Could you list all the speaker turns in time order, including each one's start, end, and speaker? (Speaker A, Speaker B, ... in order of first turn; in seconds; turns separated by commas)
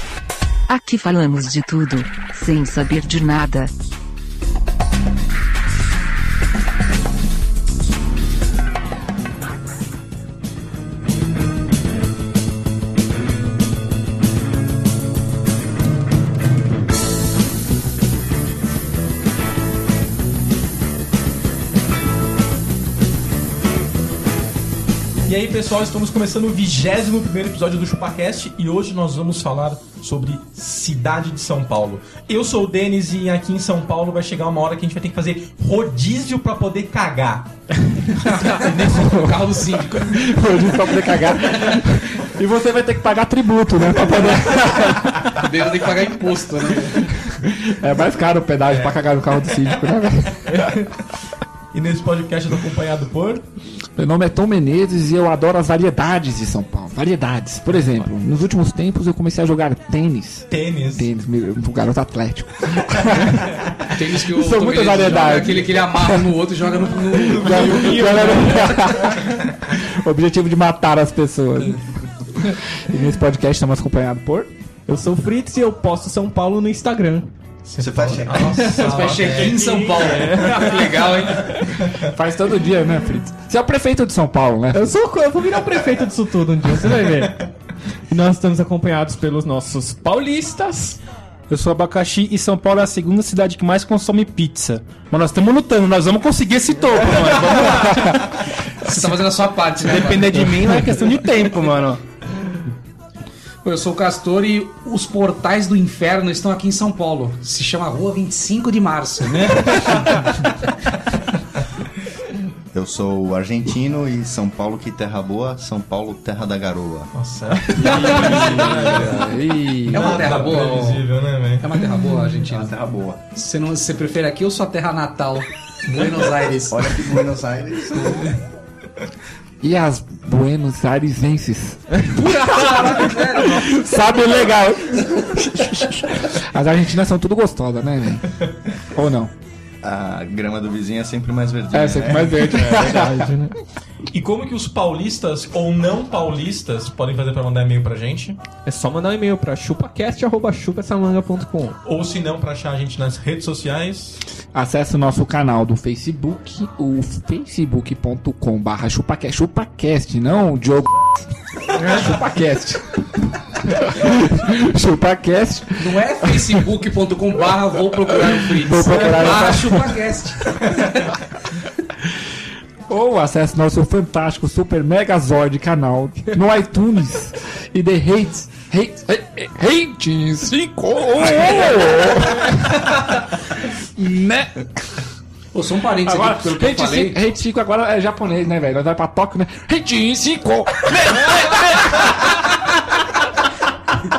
Speaker A: 0.7-3.7, Speaker B: 25.2-37.5, Speaker C: 38.2-45.4, Speaker D: 38.4-40.3, Speaker D: 45.4-47.1, Speaker C: 47.1-50.8, Speaker B: 48.7-49.0, Speaker B: 50.5-50.9, Speaker B: 51.7-53.4, Speaker C: 54.0-63.6, Speaker B: 60.5-61.1, Speaker B: 62.9-63.9, Speaker D: 63.9-68.4, Speaker C: 64.2-66.3, Speaker C: 67.1-71.8, Speaker B: 67.3-68.8, Speaker C: 72.3-74.5, Speaker E: 74.9-77.3, Speaker B: 77.7-79.6, Speaker F: 77.8-78.8, Speaker D: 78.7-81.6, Speaker E: 78.8-81.2, Speaker C: 82.0-84.9, Speaker E: 84.7-87.5, Speaker E: 88.1-91.0, Speaker G: 91.5-98.4, Speaker D: 98.8-100.6, Speaker G: 99.8-102.0, Speaker D: 103.6-110.1, Speaker E: 109.3-110.1, Speaker F: 112.7-117.1, Speaker B: 117.1-119.3, Speaker C: 117.8-120.3, Speaker D: 117.8-118.3, Speaker F: 118.5-119.2, Speaker D: 119.9-122.7, Speaker B: 119.9-121.6, Speaker F: 122.4-123.2, Speaker D: 123.3-127.2, Speaker F: 126.7-128.3, Speaker C: 129.6-139.3, Speaker D: 132.1-133.8, Speaker F: 139.8-142.6, Speaker C: 141.7-143.2, Speaker E: 142.7-143.6, Speaker B: 144.1-148.4, Speaker E: 148.6-151.8, Speaker B: 151.8-154.2, Speaker C: 154.5-161.1, Speaker C: 161.7-163.0, Speaker C: 163.7-166.6, Speaker D: 165.8-171.0, Speaker C: 168.3-170.0, Speaker B: 168.9-169.4, Speaker C: 172.9-183.2, Speaker C: 183.9-185.0, Speaker D: 185.5-187.2, Speaker C: 186.1-192.3